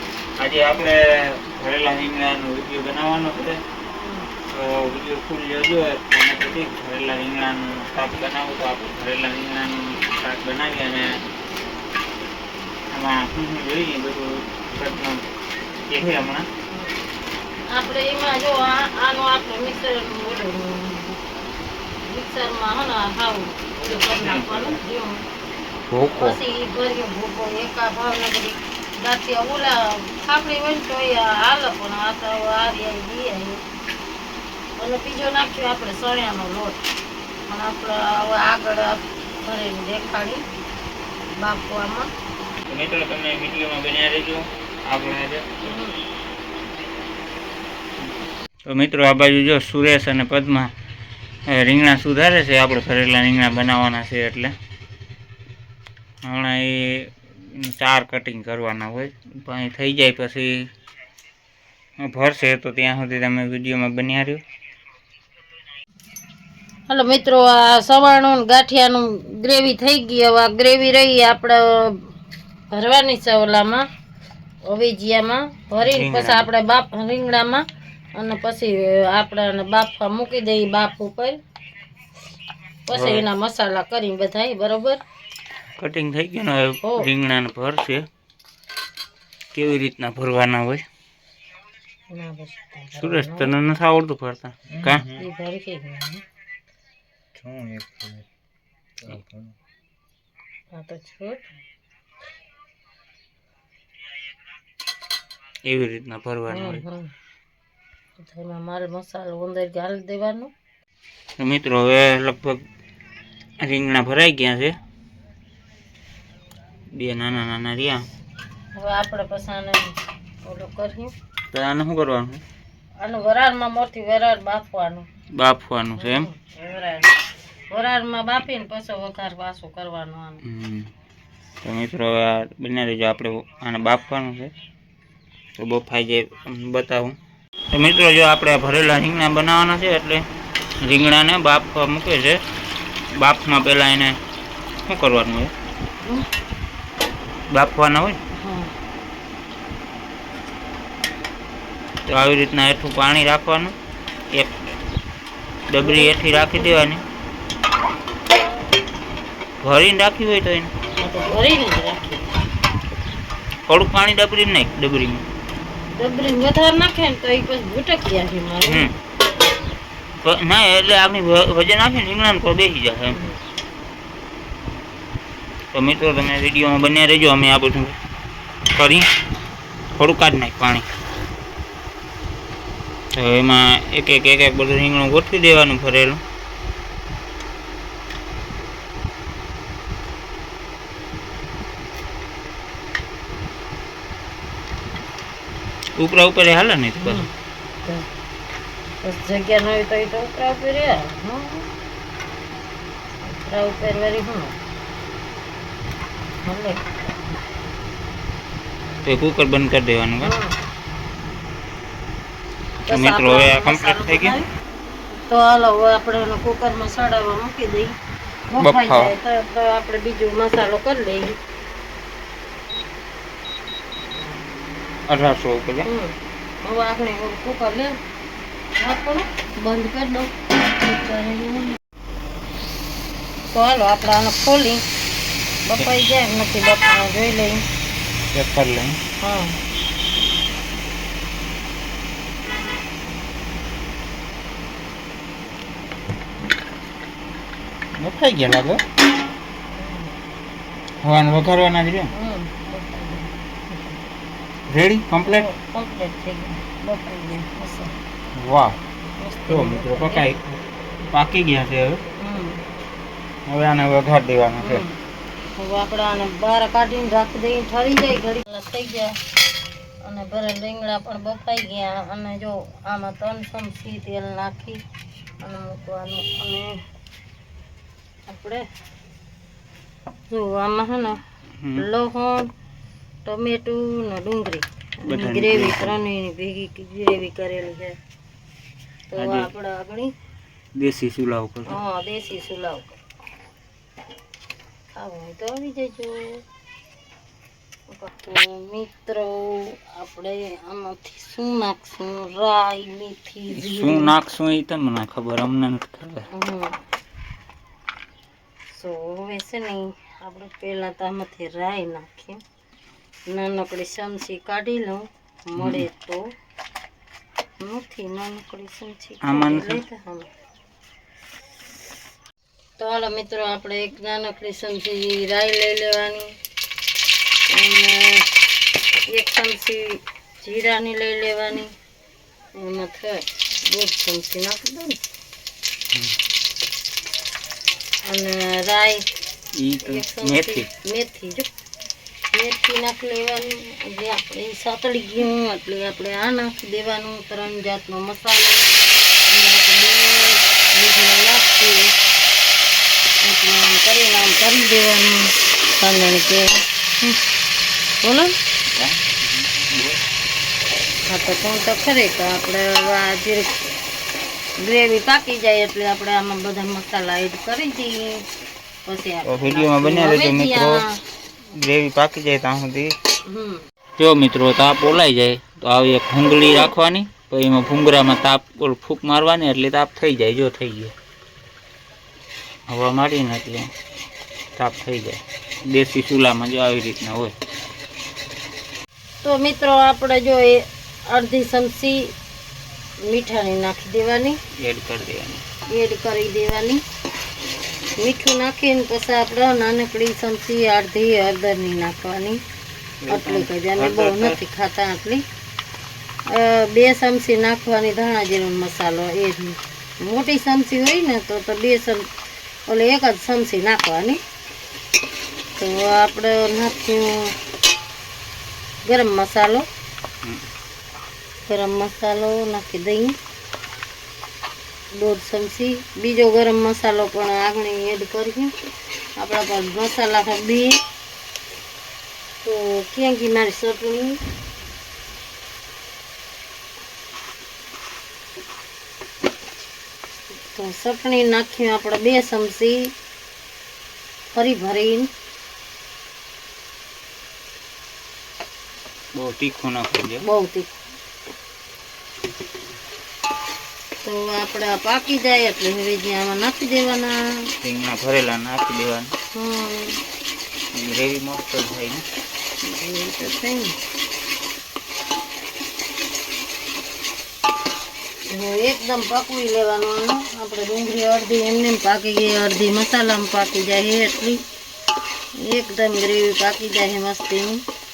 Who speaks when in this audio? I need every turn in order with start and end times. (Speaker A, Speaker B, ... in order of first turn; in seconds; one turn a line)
Speaker A: 0.4-3.6
Speaker B: 3.9-4.3
Speaker A: 4.5-11.2
Speaker A: 12.9-15.2
Speaker A: 15.8-16.5
Speaker B: 17.7-21.2
Speaker B: 22.0-25.2
Speaker A: 23.8-24.8
Speaker A: 25.9-26.4
Speaker B: 26.1-33.6
Speaker B: 34.8-36.8
Speaker B: 37.5-40.4
Speaker B: 41.4-42.1
Speaker A: 42.7-45.5
Speaker B: 45.6-46.0
Speaker A: 48.6-50.7
Speaker A: 51.5-54.5
Speaker A: 56.2-60.7
Speaker A: 62.0-64.4
Speaker B: 66.9-72.1
Speaker B: 72.7-73.8
Speaker B: 74.6-81.4
Speaker A: 75.8-76.5
Speaker B: 82.9-85.0
Speaker A: 82.9-83.2
Speaker A: 85.8-88.1
Speaker B: 86.8-87.1
Speaker A: 89.5-90.8
Speaker B: 92.1-93.5
Speaker A: 93.0-95.2
Speaker B: 95.1-96.2
Speaker A: 97.4-98.2
Speaker A: 99.0-99.5
Speaker B: 100.7-101.5
Speaker A: 105.6-106.8
Speaker B: 106.5-107.1
Speaker B: 108.2-110.5
Speaker A: 111.4-112.6
Speaker A: 113.6-114.7
Speaker A: 116.9-118.1
Speaker B: 118.7-121.1
Speaker A: 121.5-122.4
Speaker B: 123.0-125.1
Speaker A: 125.3-126.3
Speaker B: 126.0-130.4
Speaker A: 130.4-130.9
Speaker A: 131.6-134.5
Speaker A: 135.5-137.2
Speaker A: 137.7-140.3
Speaker A: 140.8-142.4
Speaker A: 143.1-144.2
Speaker A: 144.9-145.5
Speaker B: 146.0-146.3
Speaker A: 147.5-148.2
Speaker B: 148.3-148.7
Speaker A: 152.1-153.7
Speaker A: 155.7-157.0
Speaker B: 155.8-156.9
Speaker A: 159.6-160.7
Speaker B: 161.0-162.4
Speaker A: 163.7-165.2
Speaker B: 166.0-168.9
Speaker A: 168.6-168.9
Speaker A: 170.2-173.2
Speaker B: 173.1-173.4
Speaker A: 175.7-178.0
Speaker A: 178.7-179.1
Speaker A: 179.9-180.9
Speaker A: 183.1-186.2
Speaker A: 196.0-197.2
Speaker B: 197.0-197.3
Speaker B: 199.0-201.7
Speaker B: 203.2-204.6
Speaker B: 206.4-207.1
Speaker A: 209.0-210.3
Speaker B: 210.2-210.6
Speaker B: 212.9-214.5
Speaker A: 212.9-214.4
Speaker B: 215.3-217.9
Speaker B: 218.5-221.4
Speaker A: 218.6-219.1
Speaker A: 225.1-225.9
Speaker B: 225.8-228.0
Speaker B: 228.8-231.8
Speaker B: 233.5-234.8
Speaker B: 235.7-237.6
Speaker A: 238.3-239.0
Speaker B: 239.2-239.6
Speaker A: 248.0-248.8
Speaker B: 249.8-250.2
Speaker A: 251.0-252.1
Speaker B: 252.1-254.0
Speaker A: 254.7-255.5
Speaker B: 255.2-257.9
Speaker A: 258.4-258.8
Speaker B: 259.2-260.2
Speaker A: 259.5-262.0
Speaker B: 262.2-262.6
Speaker A: 263.5-264.8
Speaker B: 264.6-265.0
Speaker B: 265.6-269.1
Speaker B: 270.0-274.8
Speaker B: 275.4-276.8
Speaker B: 278.3-278.6
Speaker B: 280.3-281.2
Speaker A: 281.6-281.9
Speaker B: 281.8-282.5
Speaker B: 283.2-288.0
Speaker A: 285.0-286.0
Speaker B: 289.1-290.1
Speaker A: 289.2-289.5
Speaker A: 290.8-291.8
Speaker B: 291.7-292.9
Speaker B: 294.9-296.4
Speaker B: 297.9-304.1
Speaker A: 303.5-306.3
Speaker B: 306.3-306.8
Speaker B: 308.7-312.4
Speaker B: 313.3-316.2
Speaker A: 315.6-315.8
Speaker B: 317.6-320.3
Speaker A: 319.2-319.8
Speaker B: 322.8-326.3
Speaker B: 327.5-328.3
Speaker B: 329.1-331.7
Speaker B: 332.5-335.0
Speaker B: 338.0-339.1
Speaker A: 339.5-340.7
Speaker B: 339.8-341.5
Speaker B: 342.3-348.6
Speaker B: 349.3-351.9
Speaker B: 353.2-357.2
Speaker B: 358.0-358.4
Speaker A: 358.7-360.0
Speaker B: 361.1-363.6
Speaker B: 364.6-368.2
Speaker B: 368.8-371.0
Speaker A: 369.2-370.8
Speaker A: 371.5-372.9
Speaker B: 373.3-373.6
Speaker A: 374.0-380.9
Speaker A: 382.7-383.7
Speaker A: 384.6-387.3
Speaker B: 389.2-392.1
Speaker B: 393.0-394.4
Speaker A: 394.5-395.4
Speaker B: 395.7-396.8
Speaker B: 398.0-402.4
Speaker A: 403.0-404.4
Speaker B: 403.1-405.2
Speaker B: 406.2-412.1
Speaker B: 412.7-414.2
Speaker B: 415.6-417.4
Speaker B: 418.8-419.6
Speaker B: 421.5-423.1
Speaker B: 424.9-428.5
Speaker B: 429.2-430.8
Speaker B: 432.4-434.2
Speaker B: 440.5-442.9
Speaker B: 444.3-445.1
Speaker A: 449.1-450.2
Speaker B: 450.2-450.7
Speaker B: 454.0-457.5
Speaker A: 457.6-459.1
Speaker B: 459.3-460.0
Speaker A: 460.7-462.1
Speaker B: 462.6-463.8
Speaker B: 468.3-474.4
Speaker B: 475.4-477.6